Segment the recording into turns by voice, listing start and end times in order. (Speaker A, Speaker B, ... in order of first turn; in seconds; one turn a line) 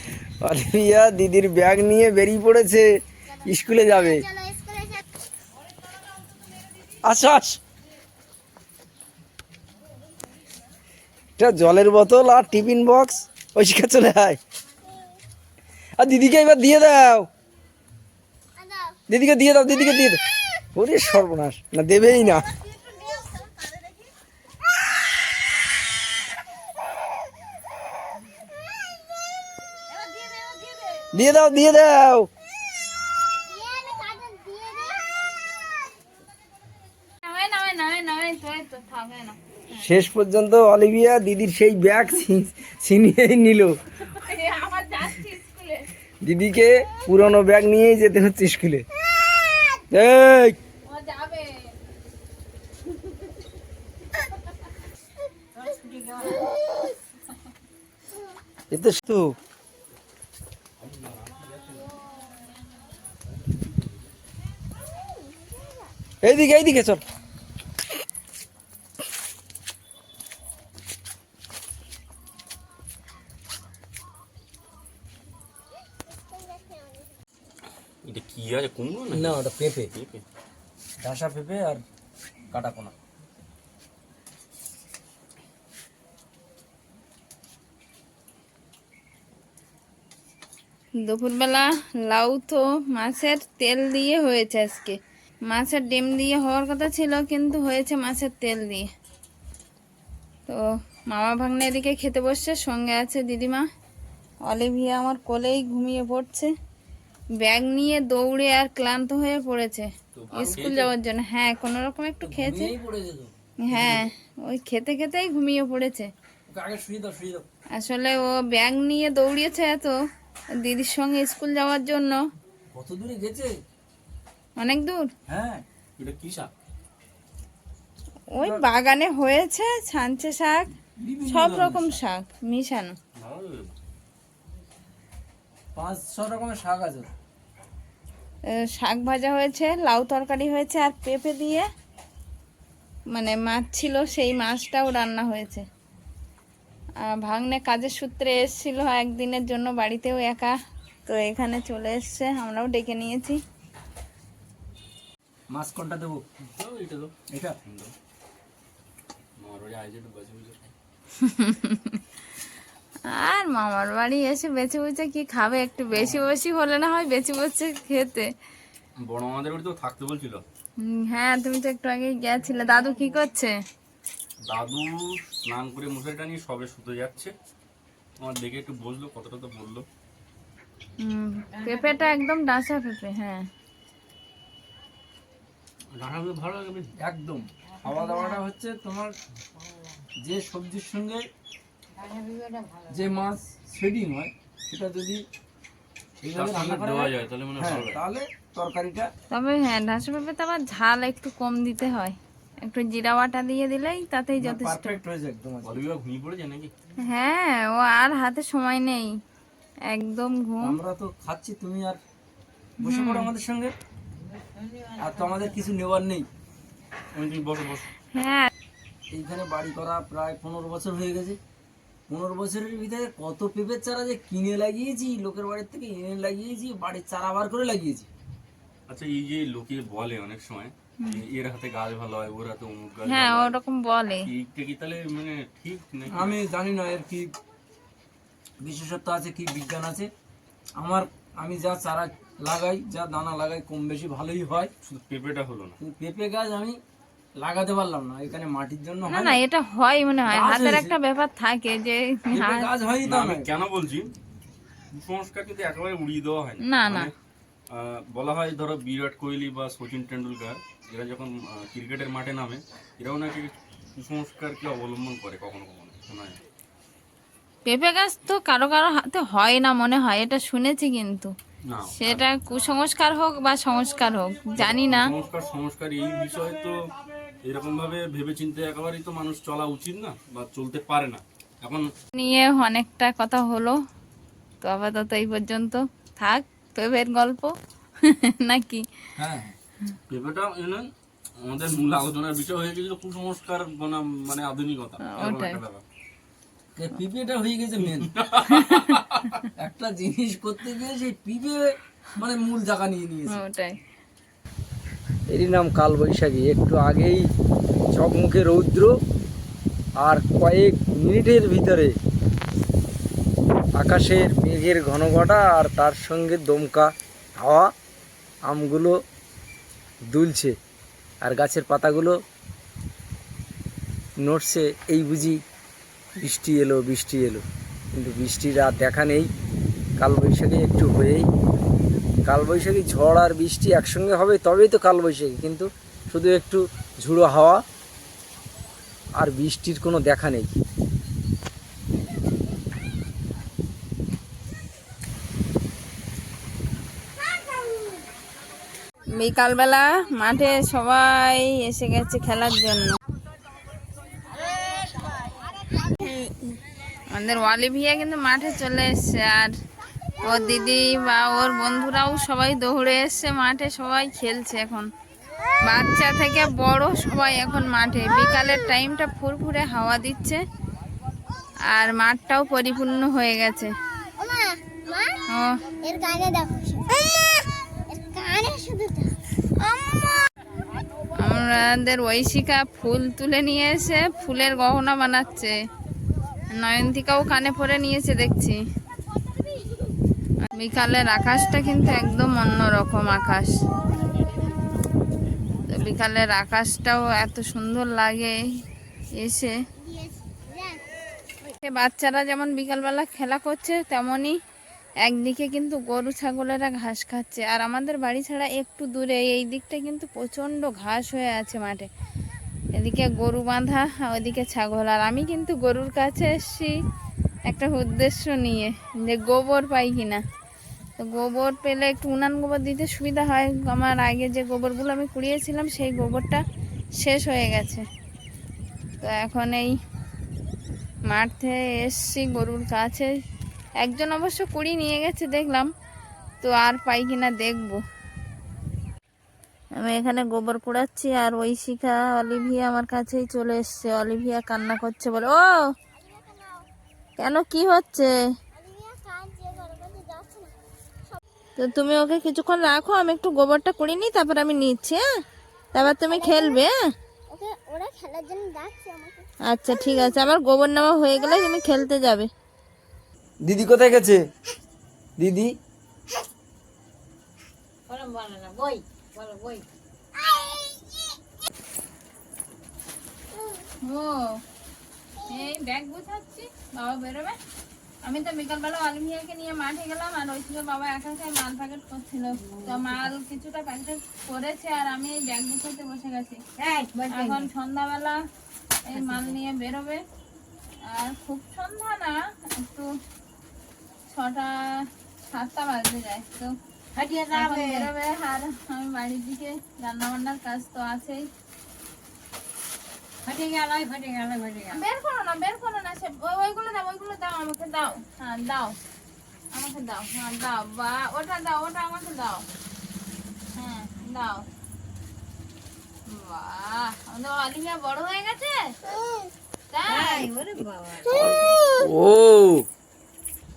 Speaker A: 0.4-2.9
Speaker B: 3.3-5.0
Speaker A: 3.4-4.2
Speaker A: 7.0-7.6
Speaker A: 11.4-14.4
Speaker B: 14.7-15.2
Speaker A: 16.0-17.3
Speaker B: 18.6-19.0
Speaker A: 19.1-20.2
Speaker A: 20.7-22.5
Speaker B: 22.2-23.8
Speaker C: 23.6-24.0
Speaker C: 30.0-30.9
Speaker A: 31.1-32.3
Speaker B: 33.5-35.9
Speaker D: 37.2-39.8
Speaker A: 39.8-43.8
Speaker D: 44.0-45.9
Speaker A: 46.2-48.8
Speaker A: 49.9-50.6
Speaker D: 50.9-51.6
Speaker C: 55.5-56.5
Speaker A: 58.7-59.3
Speaker E: 60.8-62.0
Speaker E: 63.2-64.1
Speaker B: 65.0-65.9
Speaker A: 66.2-67.0
Speaker B: 76.1-77.1
Speaker E: 78.0-80.2
Speaker A: 79.1-79.9
Speaker A: 81.0-81.8
Speaker A: 82.5-82.9
Speaker D: 91.0-95.0
Speaker D: 95.5-98.9
Speaker D: 100.5-103.6
Speaker D: 104.5-106.5
Speaker D: 107.4-112.7
Speaker E: 110.1-110.9
Speaker A: 112.2-114.0
Speaker D: 113.6-116.1
Speaker A: 116.5-117.5
Speaker D: 117.7-120.0
Speaker D: 120.6-122.2
Speaker A: 122.7-123.5
Speaker D: 124.6-125.1
Speaker A: 125.3-125.6
Speaker E: 126.0-126.5
Speaker D: 128.3-130.7
Speaker A: 128.4-128.6
Speaker A: 131.0-132.0
Speaker D: 131.2-132.9
Speaker E: 133.2-133.7
Speaker A: 135.7-137.1
Speaker D: 138.5-141.7
Speaker D: 143.1-145.6
Speaker D: 147.0-150.5
Speaker D: 151.1-153.4
Speaker A: 155.5-156.2
Speaker E: 156.6-157.1
Speaker A: 157.3-157.6
Speaker E: 157.6-157.9
Speaker E: 159.4-160.7
Speaker D: 161.2-162.0
Speaker D: 163.1-168.3
Speaker E: 169.0-170.4
Speaker D: 170.8-173.5
Speaker C: 172.4-173.3
Speaker E: 174.5-177.3
Speaker E: 178.2-179.8
Speaker D: 181.0-183.4
Speaker C: 181.5-182.2
Speaker E: 185.9-186.9
Speaker A: 187.0-189.1
Speaker C: 187.7-188.4
Speaker C: 189.5-190.0
Speaker A: 190.2-191.2
Speaker C: 191.9-193.1
Speaker A: 192.9-195.2
Speaker A: 196.2-199.1
Speaker E: 196.3-198.0
Speaker D: 199.3-205.0
Speaker A: 204.4-205.8
Speaker E: 205.6-206.7
Speaker D: 207.0-209.1
Speaker D: 209.9-210.8
Speaker A: 210.6-212.0
Speaker A: 212.8-213.7
Speaker D: 212.8-213.3
Speaker C: 214.2-215.6
Speaker A: 215.0-216.3
Speaker E: 217.1-217.9
Speaker D: 218.1-218.5
Speaker A: 219.1-221.4
Speaker A: 222.1-228.1
Speaker E: 228.9-233.6
Speaker D: 233.1-234.3
Speaker E: 234.2-236.4
Speaker A: 236.1-237.3
Speaker A: 238.6-240.1
Speaker A: 240.8-244.7
Speaker E: 244.8-245.8
Speaker A: 245.8-246.8
Speaker A: 247.4-249.4
Speaker D: 249.1-252.7
Speaker A: 250.3-250.9
Speaker A: 252.3-253.5
Speaker E: 253.0-254.1
Speaker E: 254.9-257.1
Speaker D: 256.6-257.1
Speaker E: 257.7-266.4
Speaker D: 267.6-271.3
Speaker E: 271.7-272.2
Speaker D: 271.9-275.1
Speaker E: 274.5-276.8
Speaker E: 277.4-281.9
Speaker D: 282.1-283.8
Speaker D: 284.6-288.8
Speaker A: 289.2-289.5
Speaker E: 290.1-290.9
Speaker E: 291.4-295.8
Speaker D: 295.0-295.6
Speaker A: 296.8-298.1
Speaker E: 297.9-299.5
Speaker D: 298.5-298.8
Speaker A: 299.6-303.4
Speaker D: 303.3-303.8
Speaker A: 305.3-307.3
Speaker A: 307.9-309.0
Speaker A: 310.0-311.9
Speaker A: 313.7-317.7
Speaker A: 318.5-319.0
Speaker A: 320.1-320.6
Speaker A: 321.2-322.2
Speaker A: 324.2-325.4
Speaker A: 326.2-327.4
Speaker A: 327.9-329.3
Speaker A: 330.0-331.3
Speaker A: 332.2-337.6
Speaker A: 339.2-340.6
Speaker B: 347.3-348.0
Speaker D: 349.1-353.0
Speaker B: 355.6-356.4
Speaker D: 357.1-359.5
Speaker D: 360.2-364.9
Speaker D: 365.6-370.4
Speaker D: 371.7-373.7
Speaker B: 374.2-375.2
Speaker B: 375.8-380.2
Speaker D: 381.1-385.5
Speaker D: 386.5-388.6
Speaker D: 390.5-393.6
Speaker D: 395.7-398.4
Speaker D: 399.1-399.5
Speaker B: 399.8-400.9
Speaker D: 401.6-404.4
Speaker D: 405.0-411.9
Speaker D: 412.8-416.7
Speaker D: 417.5-420.2
Speaker D: 421.0-426.4
Speaker D: 427.0-427.8
Speaker D: 429.0-429.8
Speaker D: 431.1-433.1
Speaker D: 433.8-435.7
Speaker D: 436.4-437.8
Speaker D: 439.8-445.6
Speaker B: 445.9-446.6
Speaker D: 447.2-448.1
Speaker B: 448.5-450.5
Speaker D: 451.6-455.0
Speaker D: 455.7-456.8
Speaker B: 455.8-456.6
Speaker B: 457.3-460.2
Speaker D: 459.5-462.3
Speaker A: 463.4-464.2
Speaker A: 465.2-465.5
Speaker C: 467.9-469.6
Speaker B: 470.1-471.2
Speaker B: 473.3-473.6
Speaker D: 473.8-474.4
Speaker D: 475.3-477.4
Speaker D: 478.0-486.4
Speaker C: 482.3-483.1
Speaker C: 486.6-487.5
Speaker D: 487.1-488.2
Speaker D: 488.9-490.0
Speaker C: 488.9-489.4
Speaker D: 490.8-492.9
Speaker D: 494.1-496.6
Speaker C: 496.9-497.9
Speaker D: 497.3-501.3
Speaker C: 503.2-504.8
Speaker D: 504.7-508.8
Speaker D: 509.5-512.4
Speaker D: 513.5-514.5
Speaker D: 516.1-518.6
Speaker D: 519.7-520.3
Speaker C: 519.9-521.5
Speaker A: 521.1-522.6